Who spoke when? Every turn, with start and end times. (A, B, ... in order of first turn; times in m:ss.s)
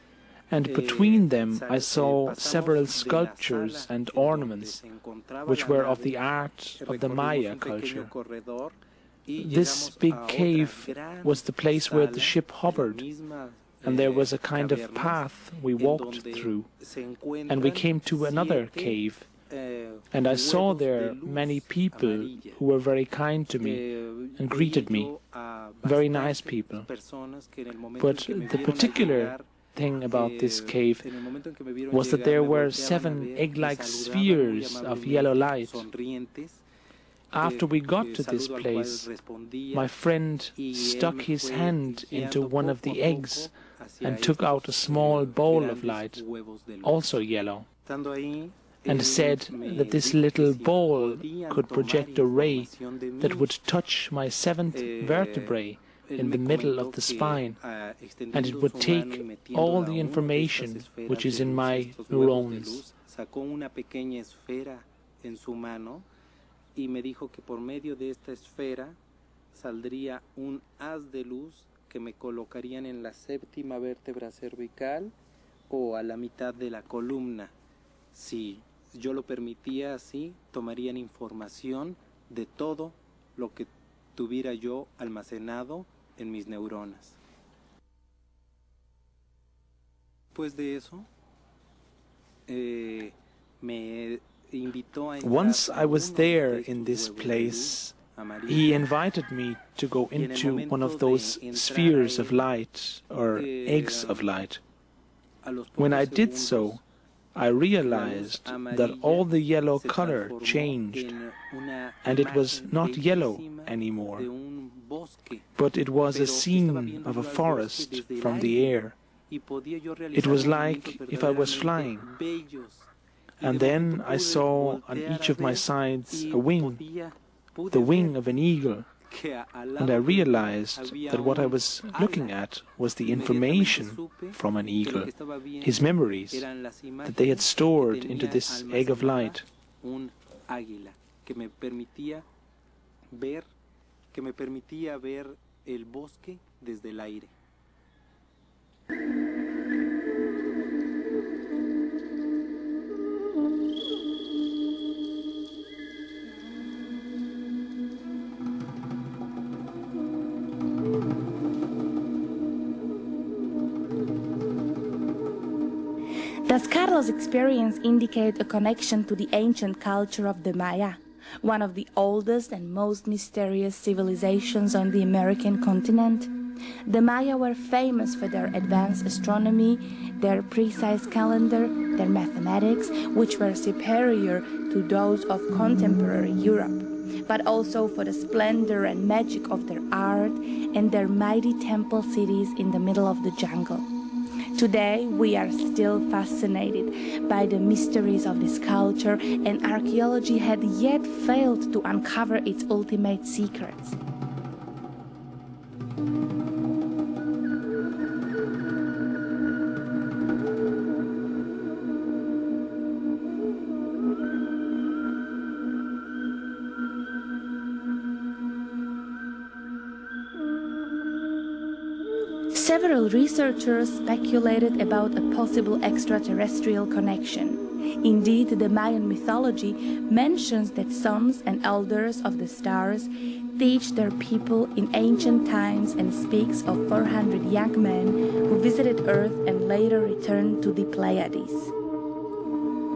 0:00.5-0:04.8 A
0:00.7-0:06.2 B
0:05.5-0:08.1 A
0:06.8-0:08.8 B
0:09.3-0:15.2 B
0:09.4-0:13.0 A
0:13.8-0:16.7 A
0:15.8-0:19.0 B
0:17.5-0:19.3 A
0:19.5-0:22.6 B
0:20.1-0:23.8 A
0:23.6-0:29.4 B
0:24.4-0:25.1 A
0:25.8-0:26.9 A
0:28.0-0:31.0 A
0:30.1-0:36.6 B
0:31.9-0:35.8 A
0:37.3-0:39.1 A
0:37.4-0:39.9 B
0:39.7-0:43.5 A
0:40.6-0:47.0 B
0:44.0-0:46.2 A
0:46.8-0:47.7 A
0:47.9-0:53.5 B
0:48.9-0:57.6 A
0:54.7-0:55.5 B
0:56.1-1:06.1 B
0:58.3-1:02.8 A
1:06.8-1:09.0 B
1:09.5-1:15.1 B
1:15.7-1:17.5 B
1:18.1-1:27.2 B
1:30.3-1:31.1 B
1:32.5-1:38.9 B
1:35.2-1:37.9 A
1:38.5-1:44.6 A
1:40.1-1:42.4 B
1:43.4-1:44.3 B
1:45.4-1:46.8 B
1:45.8-1:46.8 A
1:47.4-1:51.1 A
1:47.8-1:55.5 B
1:52.0-1:54.3 A
1:55.6-1:59.0 A
1:56.1-1:58.7 B
1:59.3-2:02.9 B
2:00.1-2:02.1 A
2:03.4-2:06.8 A
2:03.4-2:08.2 B
2:07.7-2:08.9 A
2:09.1-2:12.3 B
2:09.8-2:15.1 A
2:13.0-2:22.2 B
2:15.6-2:16.4 A
2:17.0-2:19.4 A
2:23.1-2:23.5 B
2:24.1-2:27.3 B
2:46.5-2:56.3 C
2:56.9-3:13.9 C
3:14.6-3:24.0 C
3:42.5-4:01.7 C